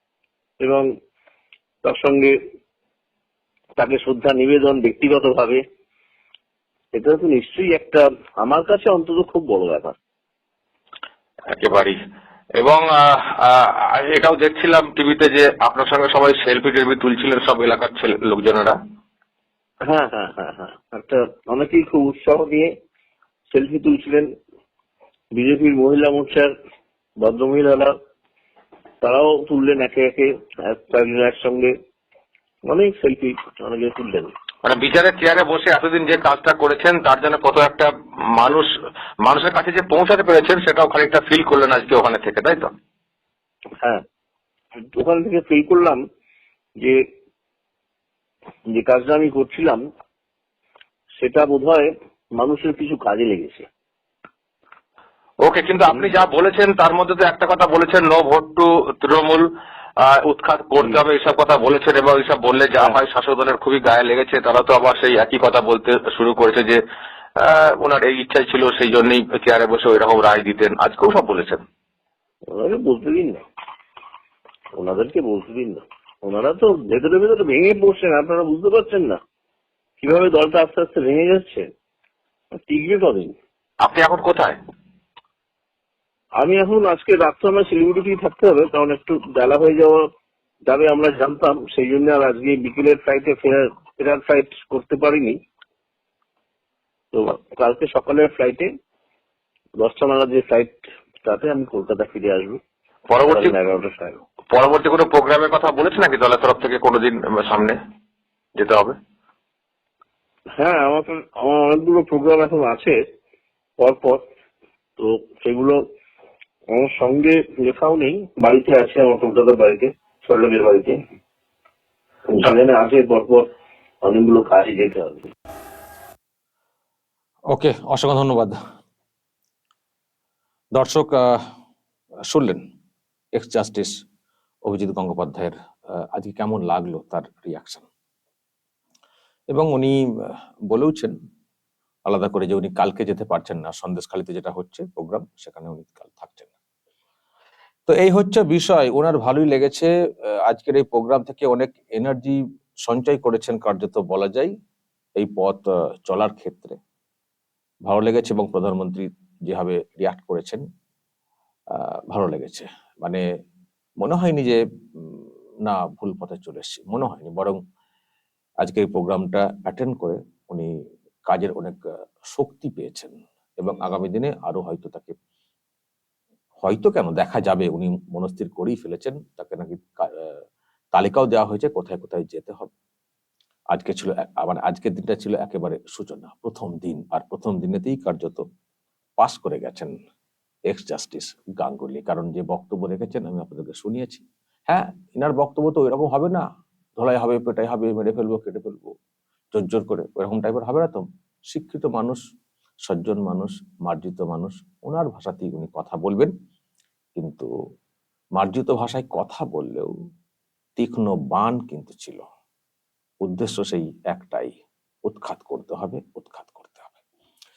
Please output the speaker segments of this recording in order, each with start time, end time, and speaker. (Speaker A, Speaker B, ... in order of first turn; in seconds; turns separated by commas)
Speaker A: 0.6-0.9, Speaker A: 1.8-2.3, Speaker A: 3.8-5.6, Speaker A: 6.9-9.9, Speaker B: 11.5-12.0, Speaker B: 12.6-18.8, Speaker A: 19.9-22.7, Speaker A: 23.5-24.3, Speaker A: 25.3-26.5, Speaker A: 27.2-27.9, Speaker A: 29.0-31.7, Speaker A: 32.7-34.3, Speaker B: 34.6-38.7, Speaker B: 39.2-42.7, Speaker A: 44.9-46.0, Speaker A: 48.7-49.8, Speaker A: 51.2-53.7, Speaker B: 55.4-59.5, Speaker B: 60.0-66.8, Speaker B: 67.4-71.6, Speaker A: 72.5-73.4, Speaker A: 74.8-79.2, Speaker A: 80.0-81.7, Speaker A: 82.5-83.3, Speaker B: 83.8-84.6, Speaker A: 86.4-90.0, Speaker A: 90.7-95.4, Speaker A: 97.1-98.7, Speaker A: 99.8-102.6, Speaker B: 103.1-103.5, Speaker A: 103.2-104.2, Speaker B: 104.5-107.8, Speaker B: 108.6-109.0, Speaker A: 110.6-113.0, Speaker A: 113.8-114.2, Speaker A: 115.0-115.8, Speaker A: 116.7-121.0, Speaker A: 122.3-123.5, Speaker A: 124.0-125.3, Speaker C: 127.5-128.6, Speaker C: 130.8-131.4, Speaker C: 132.3-132.6, Speaker C: 133.4-133.9, Speaker C: 134.7-137.8, Speaker C: 139.5-141.1, Speaker C: 142.1-146.5, Speaker C: 147.9-149.9, Speaker C: 150.5-154.5, Speaker C: 155.2-156.8, Speaker C: 157.9-160.6, Speaker C: 161.7-163.2, Speaker C: 164.0-167.6, Speaker C: 168.6-170.7, Speaker C: 171.3-171.8, Speaker C: 172.3-175.2, Speaker C: 176.6-180.4, Speaker C: 180.9-182.7, Speaker C: 183.7-188.4, Speaker C: 189.2-189.9, Speaker C: 190.7-196.5, Speaker C: 197.0-198.9, Speaker C: 199.5-202.2, Speaker C: 202.9-206.3, Speaker C: 207.2-207.5, Speaker C: 208.4-209.9, Speaker C: 210.8-212.2, Speaker C: 213.2-214.5, Speaker C: 215.1-217.0